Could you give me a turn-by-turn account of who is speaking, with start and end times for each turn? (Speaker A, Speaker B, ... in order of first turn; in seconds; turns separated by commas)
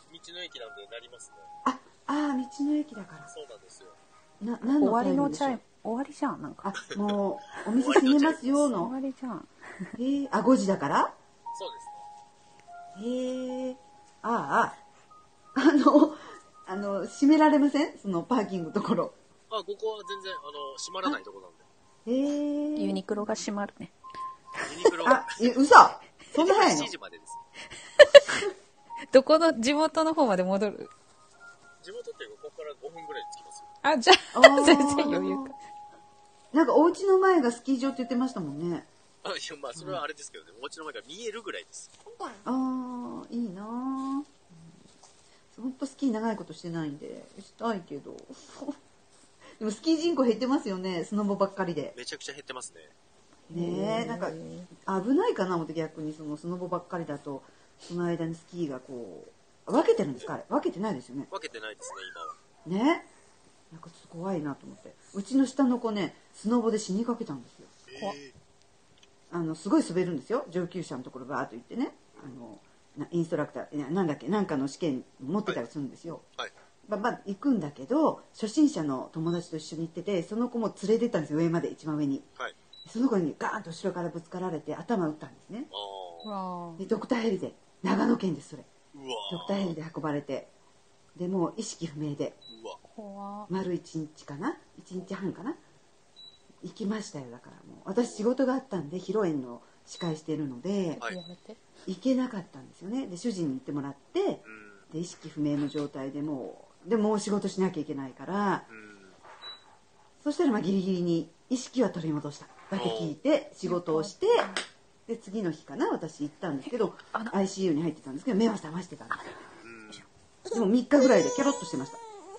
Speaker A: 0.1-1.5, Speaker B: 1.6-3.3, Speaker A: 3.3-4.0, Speaker B: 4.4-5.6, Speaker C: 4.7-6.7, Speaker B: 6.6-8.9, Speaker A: 7.6-8.7, Speaker C: 8.7-9.9, Speaker B: 10.0-11.1, Speaker A: 11.5-12.0, Speaker B: 12.9-14.8, Speaker B: 15.5-19.1, Speaker A: 19.5-21.6, Speaker B: 22.1-23.4, Speaker C: 22.8-23.9, Speaker A: 24.6-25.7, Speaker B: 25.0-26.9, Speaker A: 26.3-27.4, Speaker C: 28.1-28.4, Speaker C: 29.1-30.9, Speaker A: 31.8-33.7, Speaker C: 33.8-35.5, Speaker B: 34.3-35.5, Speaker B: 36.5-38.9, Speaker A: 39.2-41.9, Speaker B: 39.8-40.0, Speaker B: 42.4-44.3, Speaker B: 45.5-48.8, Speaker B: 49.6-51.9, Speaker A: 51.9-52.9, Speaker B: 53.5-61.3, Speaker C: 53.5-54.7, Speaker A: 61.3-62.4, Speaker B: 62.6-63.1, Speaker B: 63.7-67.7, Speaker A: 67.9-68.3, Speaker B: 69.3-76.2, Speaker B: 76.9-82.3, Speaker B: 82.9-85.7, Speaker A: 85.7-86.3, Speaker C: 86.2-86.8, Speaker B: 86.8-88.7, Speaker A: 88.9-89.8, Speaker B: 89.3-90.5, Speaker B: 91.2-92.4, Speaker A: 92.5-92.8, Speaker C: 92.9-93.5, Speaker B: 93.5-95.6, Speaker B: 96.6-101.0, Speaker C: 101.0-101.6, Speaker B: 101.9-108.6, Speaker A: 104.4-104.9, Speaker A: 108.7-109.2, Speaker B: 110.2-114.5, Speaker A: 112.7-113.2, Speaker C: 113.6-114.6, Speaker B: 115.1-119.4, Speaker A: 119.6-120.1, Speaker B: 120.5-122.0